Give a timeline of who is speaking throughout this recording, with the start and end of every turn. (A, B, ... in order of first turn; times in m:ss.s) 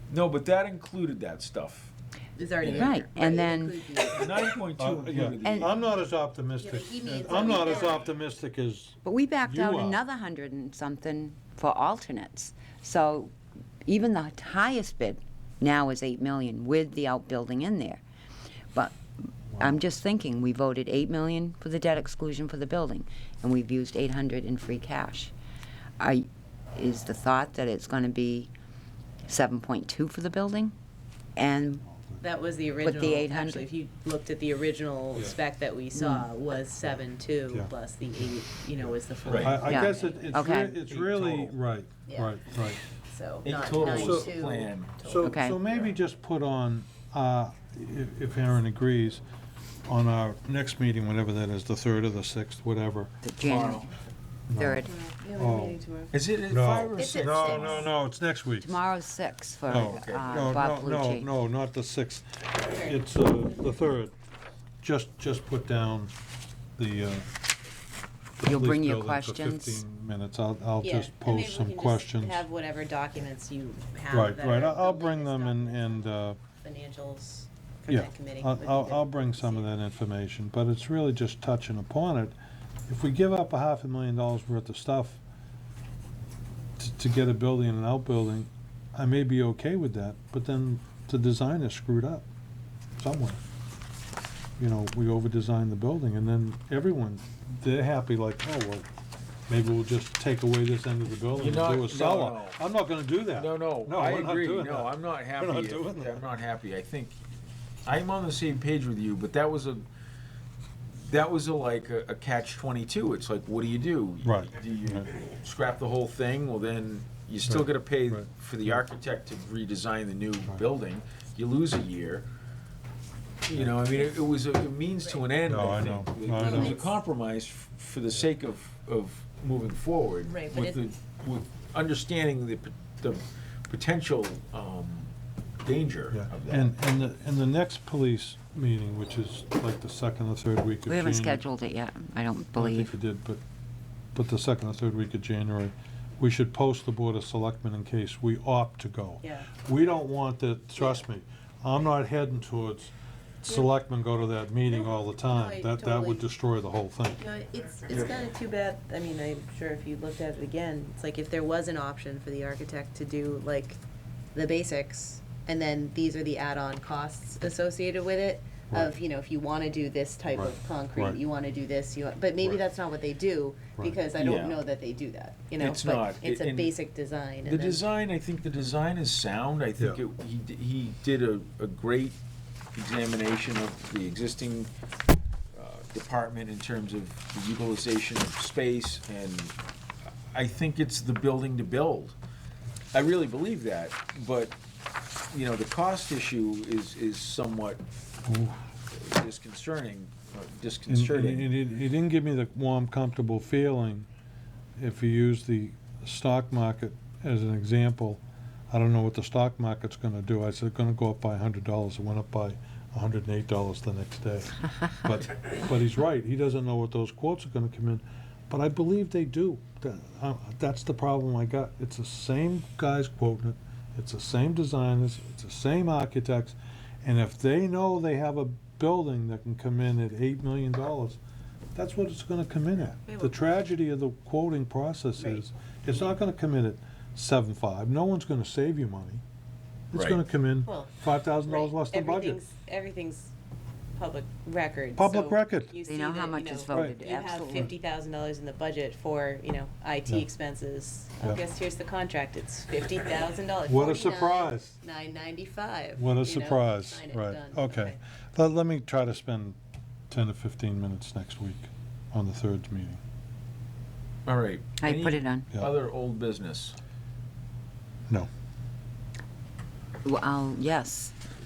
0:00.1-0:01.9 A
0:02.3-0:04.5 B
0:02.5-0:03.0 A
0:02.7-0:03.8 C
0:04.0-0:05.8 A
0:04.8-0:10.0 D
0:05.4-0:05.7 C
0:06.6-0:08.1 B
0:09.0-0:13.3 C
0:13.8-0:18.0 C
0:19.5-0:19.8 D
0:19.6-0:25.3 C
0:26.0-0:28.5 C
0:29.3-0:30.7 C
0:31.4-0:31.8 C
0:31.9-0:32.2 D
0:32.2-0:40.3 B
0:32.8-0:33.6 C
0:35.9-0:36.2 C
0:37.5-0:38.3 D
0:38.8-0:42.8 D
0:39.2-0:39.7 A
0:39.6-0:40.8 C
0:40.6-0:41.5 A
0:42.0-0:42.4 B
0:43.0-0:45.3 B
0:43.4-0:45.0 A
0:43.8-0:44.3 D
0:45.0-0:49.2 D
0:45.2-0:45.6 C
0:49.8-0:53.1 D
0:53.2-0:53.9 C
0:53.4-0:53.9 A
0:54.5-0:54.8 D
0:54.5-0:54.9 C
0:54.8-0:56.1 B
0:55.4-0:55.8 D
0:56.1-0:57.9 A
0:56.5-0:58.7 D
0:57.0-0:57.9 B
0:58.6-1:01.3 C
0:59.7-1:00.6 A
0:59.7-1:04.1 D
1:02.7-1:03.0 B
1:04.8-1:06.1 D
1:06.8-1:07.2 D
1:08.4-1:12.4 D
1:08.4-1:09.8 C
1:10.8-1:16.1 B
1:14.1-1:16.4 D
1:16.6-1:19.7 B
1:17.9-1:22.4 D
1:22.9-1:25.2 D
1:26.8-1:32.2 D
1:33.0-1:33.4 D
1:34.6-1:38.9 D
1:39.5-1:46.2 D
1:41.4-1:42.6 A
1:43.3-1:47.2 A
1:47.8-1:49.8 A
1:51.0-2:02.2 A
1:54.2-1:55.1 D
1:57.5-1:58.8 D
2:03.4-2:15.1 A
2:05.4-2:06.8 D
2:06.4-2:06.9 B
2:10.2-2:10.8 B
2:15.6-2:16.8 A
2:16.1-2:21.4 D
2:20.9-2:23.0 C
2:22.6-2:23.4 D
2:24.1-2:37.2 D
2:29.2-2:29.5 B
2:34.7-2:36.2 B
2:37.2-2:43.8 B
2:44.3-2:57.8 B
2:50.3-2:51.2 D
2:54.1-2:54.6 A
2:55.6-2:56.7 A
2:57.4-3:02.2 A
3:02.8-3:04.7 A
3:05.6-3:09.5 A
3:10.3-3:12.2 A
3:12.9-3:14.6 A
3:15.3-3:17.8 A
3:18.2-3:18.6 D
3:18.9-3:21.5 A
3:20.9-3:24.1 D
3:24.8-3:51.2 D
3:51.7-3:59.2 D
3:53.0-3:53.4 B
3:59.9-4:02.4 D
3:59.9-4:00.2 A
4:00.6-4:03.3 B
4:04.0-4:18.0 B
4:05.0-4:05.7 D
4:05.8-4:07.7 C
4:13.7-4:14.8 D
4:16.0-4:19.6 D
4:20.1-4:23.0 D
4:24.2-4:26.7 A
4:24.8-4:25.5 C
4:30.0-4:31.1 C